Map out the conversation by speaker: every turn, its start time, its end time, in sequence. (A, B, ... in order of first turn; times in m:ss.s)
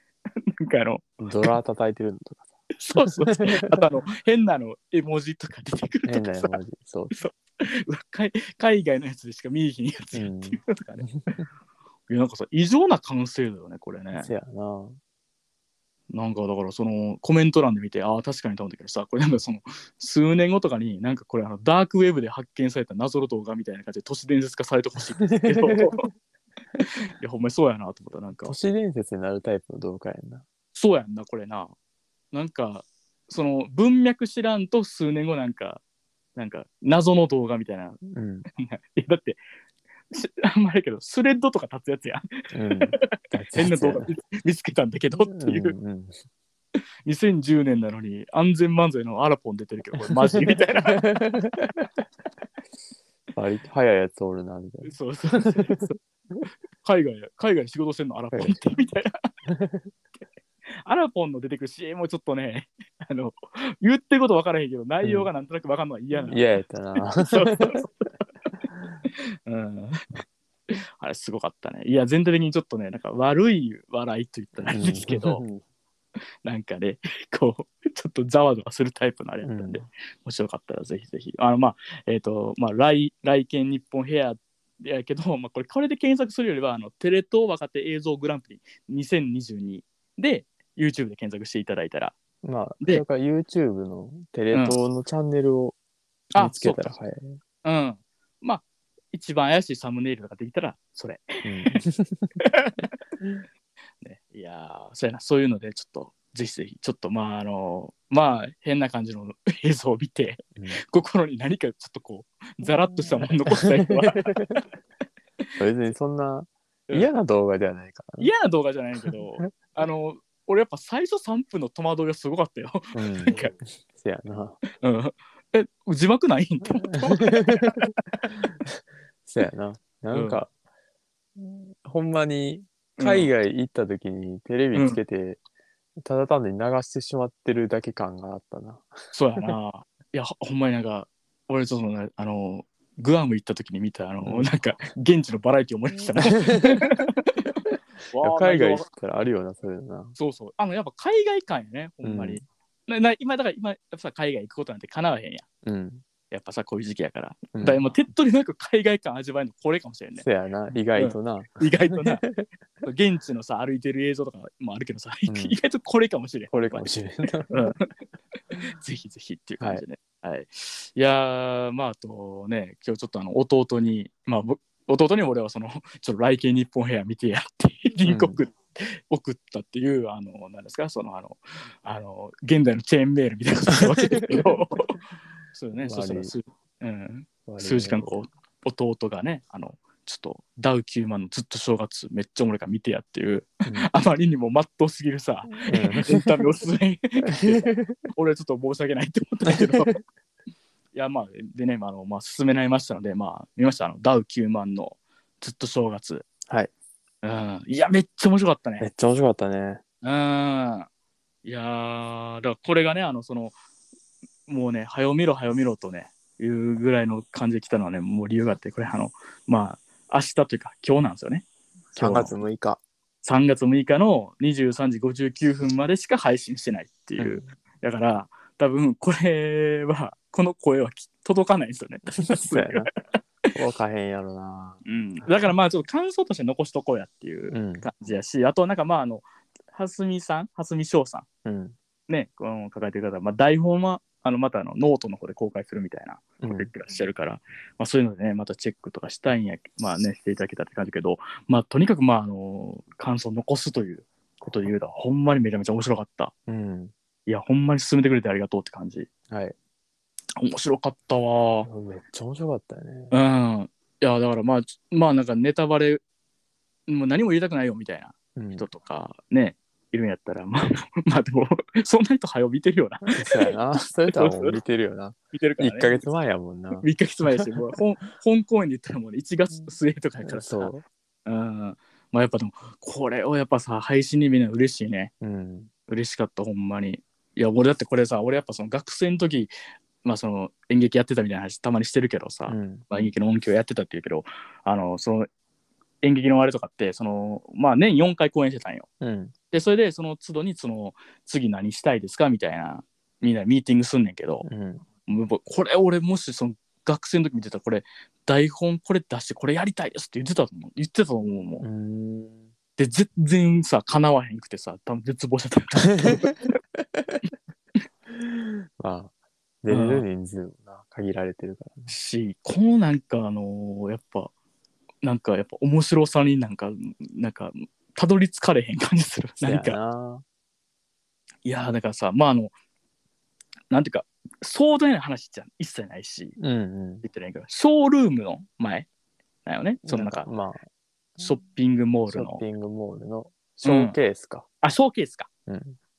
0:00.6-0:01.5 A
0:01.2-0:02.5 B
0:02.8-0:06.6 A
0:03.0-0:03.8 B
0:06.0-0:07.1 B
0:07.1-0:11.1 A
0:10.1-0:11.4 B
0:12.1-0:14.3 A
0:14.2-0:15.0 B
0:16.1-0:26.1 A
0:25.3-0:26.0 B
0:27.2-0:28.5 A
0:28.4-0:30.4 B
0:30.7-0:31.7 A
0:32.3-0:35.8 A
0:36.3-0:38.0 A
0:38.0-0:38.4 B
0:38.5-0:39.4 A
0:40.1-0:45.7 A
0:42.5-0:44.1 B
0:45.3-0:46.1 B
0:47.0-0:51.2 A
0:50.3-0:51.8 B
0:53.4-0:55.8 B
0:54.8-0:56.0 A
0:56.8-0:59.2 A
0:58.3-0:58.6 B
0:59.4-0:59.9 B
1:00.8-1:06.4 A
1:05.0-1:05.3 B
1:06.1-1:07.8 B
1:07.1-1:07.9 A
1:09.1-1:15.4 A
1:14.6-1:15.6 B
1:16.4-1:32.2 A
1:19.4-1:19.8 B
1:32.4-1:35.8 B
1:34.5-1:34.8 A
1:36.3-1:37.0 A
1:36.4-1:37.4 B
1:37.6-1:41.8 A
1:41.4-1:42.3 B
1:42.4-1:42.9 A
1:44.0-1:54.6 A
1:53.0-1:54.6 B
1:55.6-1:58.3 B
1:58.2-2:03.5 A
1:59.0-1:59.5 B
2:02.9-2:04.6 B
2:04.8-2:08.0 A
2:06.9-2:07.8 B
2:09.2-2:10.5 B
2:10.1-2:10.4 A
2:11.4-2:15.4 B
2:13.0-2:13.3 A
2:14.7-2:15.0 A
2:16.0-2:19.5 B
2:19.1-2:28.9 A
2:24.2-2:24.5 B
2:26.2-2:26.9 B
2:28.2-2:30.2 B
2:30.2-2:35.4 A
2:32.0-2:32.4 B
2:35.6-2:36.0 B
2:36.3-2:40.2 A
2:37.5-2:37.8 B
2:40.2-2:42.4 B
2:40.9-2:42.2 A
2:42.8-2:46.9 A
2:45.3-2:45.6 B
2:46.5-2:47.6 B
2:47.5-2:47.9 A
2:48.5-3:05.0 A
2:58.1-2:58.4 B
3:04.1-3:04.5 B
3:05.5-3:20.0 A
3:05.8-3:06.3 B
3:07.4-3:08.1 B
3:15.6-3:16.3 B
3:17.3-3:18.0 B
3:20.9-3:26.3 A
3:27.2-3:28.9 A
3:28.8-3:29.8 B
3:30.0-3:30.9 A
3:31.4-3:33.6 A
3:34.5-3:42.3 A
3:41.9-3:42.8 B
3:43.2-3:53.2 A
3:47.2-3:47.4 B
3:52.2-3:52.9 B
3:53.5-3:54.8 B
3:54.8-4:01.2 A
3:57.5-3:57.9 B
4:01.4-4:01.7 B
4:02.1-4:16.3 A
4:06.4-4:06.7 B
4:16.5-4:16.9 B
4:17.2-4:19.1 A
4:19.3-4:19.5 B
4:20.4-4:21.7 A
4:21.6-4:23.1 B
4:23.1-4:26.0 A
4:26.9-4:33.5 A
4:28.4-4:28.6 B
4:33.1-4:37.4 B
4:34.1-4:34.6 A
4:35.3-4:36.0 A
4:36.8-4:40.7 A
4:40.2-4:40.8 B
4:41.2-4:45.1 A
4:45.2-4:45.7 B
4:45.9-4:49.5 A
4:50.0-4:55.3 A
4:52.5-4:52.8 B
4:56.0-4:58.9 A
4:59.0-4:59.3 B
4:59.5-5:04.5 A
5:04.4-5:04.8 B
5:05.0-5:11.6 A
5:11.6-5:12.5 B
5:12.8-5:16.4 A
5:16.0-5:17.1 B
5:18.1-5:21.9 B
5:19.7-5:20.0 A
5:21.9-5:24.3 A
5:25.0-5:29.8 A
5:29.4-5:30.2 B
5:31.4-5:32.5 A
5:33.7-5:36.4 A
5:36.4-5:37.0 B
5:37.0-5:38.9 A
5:39.4-5:40.3 A
5:39.8-5:40.6 B
5:41.2-5:42.4 A
5:42.1-5:44.4 B
5:43.6-5:44.0 A
5:44.6-5:45.3 A
5:45.5-5:45.8 B